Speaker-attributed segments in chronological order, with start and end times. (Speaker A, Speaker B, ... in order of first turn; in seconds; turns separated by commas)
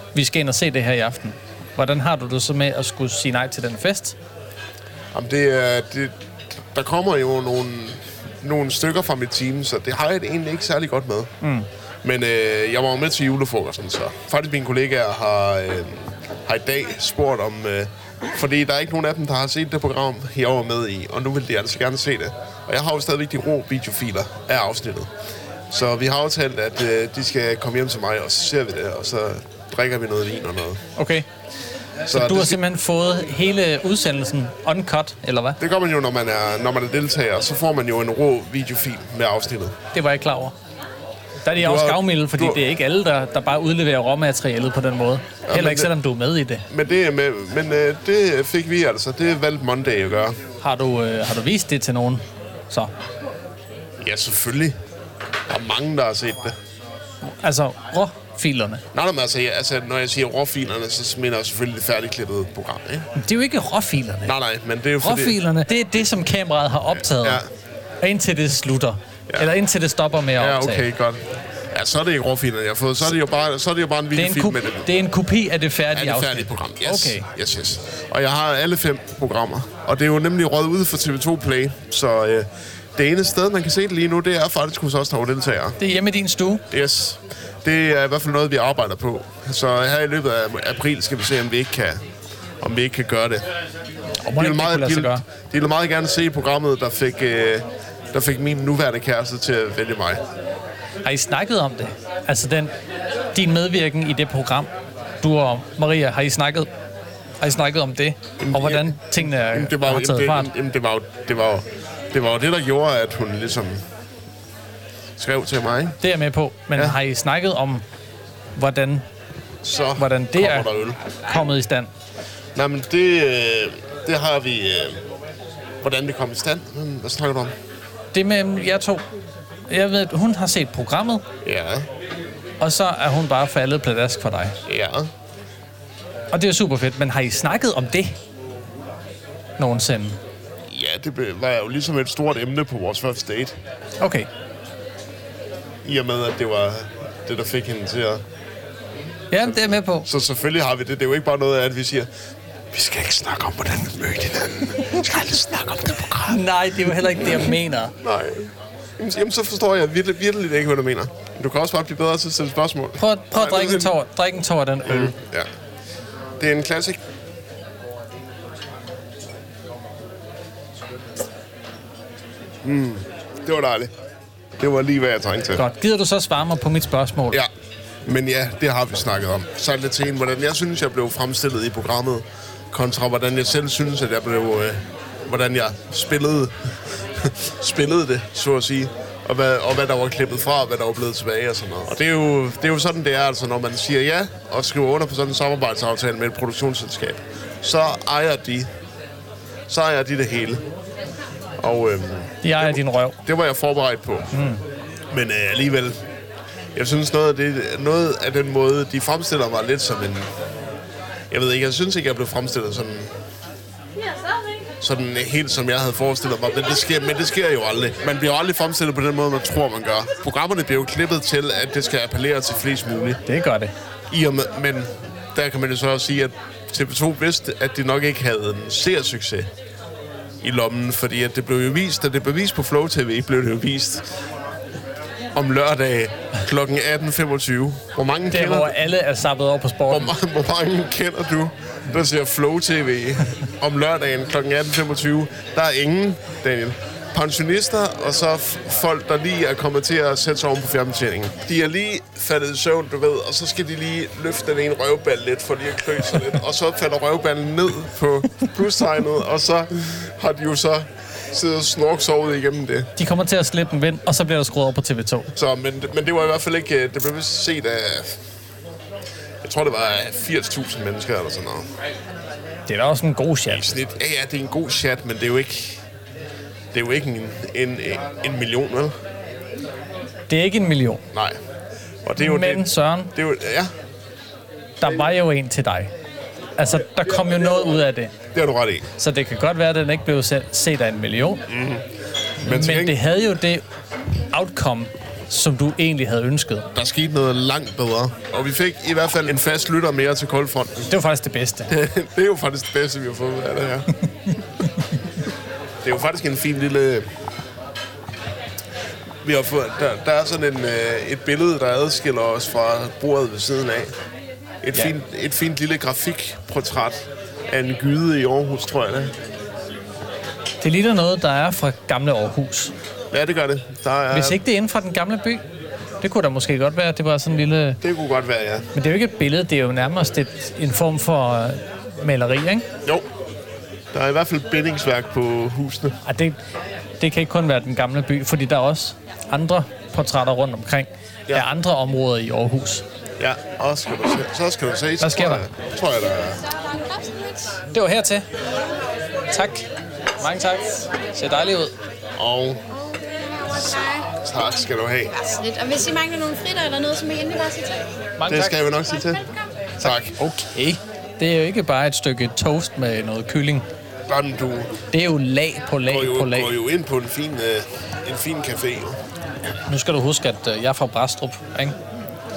Speaker A: 0.1-4.2, Speaker B: 5.1-11.3, Speaker A: 11.4-11.7, Speaker B: 12.0-25.1, Speaker B: 25.7-30.8, Speaker A: 31.0-31.3, Speaker B: 32.1-32.6, Speaker A: 32.1-35.6, Speaker B: 35.6-39.8, Speaker A: 39.9-40.5, Speaker A: 41.4-46.7, Speaker B: 41.5-42.6, Speaker B: 45.5-45.9, Speaker B: 46.7-50.4, Speaker A: 50.6-52.9, Speaker B: 54.0-54.8, Speaker B: 55.5-56.6, Speaker A: 57.2-58.8, Speaker B: 58.9-63.1, Speaker A: 63.2-64.3, Speaker B: 64.2-65.4, Speaker A: 65.0-67.4, Speaker B: 66.9-67.5, Speaker A: 68.0-70.9, Speaker B: 70.4-74.9, Speaker A: 74.2-77.3, Speaker B: 75.9-85.8, Speaker A: 85.8-86.6, Speaker B: 86.7-92.0, Speaker B: 92.6-93.5, Speaker A: 94.2-95.2, Speaker B: 94.4-100.2, Speaker A: 101.0-102.7, Speaker A: 103.3-106.7, Speaker A: 107.4-110.5, Speaker B: 108.4-113.8, Speaker B: 115.2-116.0, Speaker A: 116.0-117.8, Speaker A: 118.6-119.0, Speaker B: 119.6-121.0, Speaker A: 120.0-121.9, Speaker B: 122.5-125.0, Speaker B: 125.8-127.6, Speaker A: 128.1-129.0, Speaker A: 129.7-131.2, Speaker B: 131.4-131.9, Speaker A: 132.6-134.6, Speaker B: 134.7-135.1, Speaker A: 136.3-138.2, Speaker A: 139.6-140.2, Speaker B: 140.7-143.6, Speaker A: 144.0-144.3, Speaker B: 145.8-148.2, Speaker A: 149.3-150.1, Speaker B: 149.4-152.1, Speaker B: 152.7-164.0, Speaker A: 156.2-157.9, Speaker A: 163.0-165.1, Speaker B: 164.8-165.5, Speaker B: 166.4-167.0, Speaker B: 172.6-173.9, Speaker B: 174.6-175.6, Speaker A: 175.6-177.4, Speaker B: 178.1-198.7, Speaker B: 199.7-200.7, Speaker B: 201.6-204.5, Speaker A: 202.4-203.2, Speaker A: 204.3-204.6, Speaker B: 205.1-206.0, Speaker B: 206.8-210.3, Speaker B: 211.3-213.2, Speaker B: 214.8-223.2, Speaker A: 223.3-223.7, Speaker B: 224.1-229.5, Speaker B: 230.4-234.1, Speaker B: 235.3-238.8, Speaker A: 238.3-240.1, Speaker B: 239.9-262.9, Speaker A: 263.0-265.3, Speaker B: 265.4-268.2, Speaker B: 269.4-271.7, Speaker A: 272.7-273.8, Speaker B: 273.5-275.8, Speaker B: 276.7-278.9, Speaker A: 280.3-281.0, Speaker B: 281.1-281.4, Speaker B: 282.0-283.7, Speaker A: 282.2-283.1, Speaker A: 284.8-285.9, Speaker A: 286.6-288.1, Speaker B: 288.3-288.9, Speaker A: 289.0-291.4, Speaker B: 291.5-291.9, Speaker B: 292.4-293.0, Speaker A: 292.4-293.6, Speaker A: 294.3-296.7, Speaker B: 296.7-300.9, Speaker A: 300.9-301.7, Speaker B: 301.7-303.9, Speaker B: 305.8-307.1, Speaker B: 309.2-314.0, Speaker B: 314.6-319.1, Speaker A: 320.6-322.7, Speaker B: 323.1-324.4, Speaker A: 324.1-325.4, Speaker A: 326.0-327.8, Speaker B: 327.8-328.7, Speaker A: 328.8-332.7, Speaker B: 333.9-336.0, Speaker A: 336.1-336.4, Speaker A: 337.0-342.9, Speaker B: 343.2-346.4, Speaker A: 345.0-345.4, Speaker C: 346.4-347.6, Speaker A: 347.7-348.3, Speaker A: 349.3-349.7, Speaker A: 350.2-351.7, Speaker B: 352.2-352.7, Speaker C: 352.7-354.1, Speaker B: 354.1-355.1, Speaker C: 355.1-357.9, Speaker A: 358.2-358.6, Speaker B: 358.3-359.2, Speaker B: 359.8-360.2, Speaker A: 359.8-363.7, Speaker B: 364.1-364.8, Speaker A: 364.9-366.6, Speaker B: 365.9-369.0, Speaker A: 369.7-371.8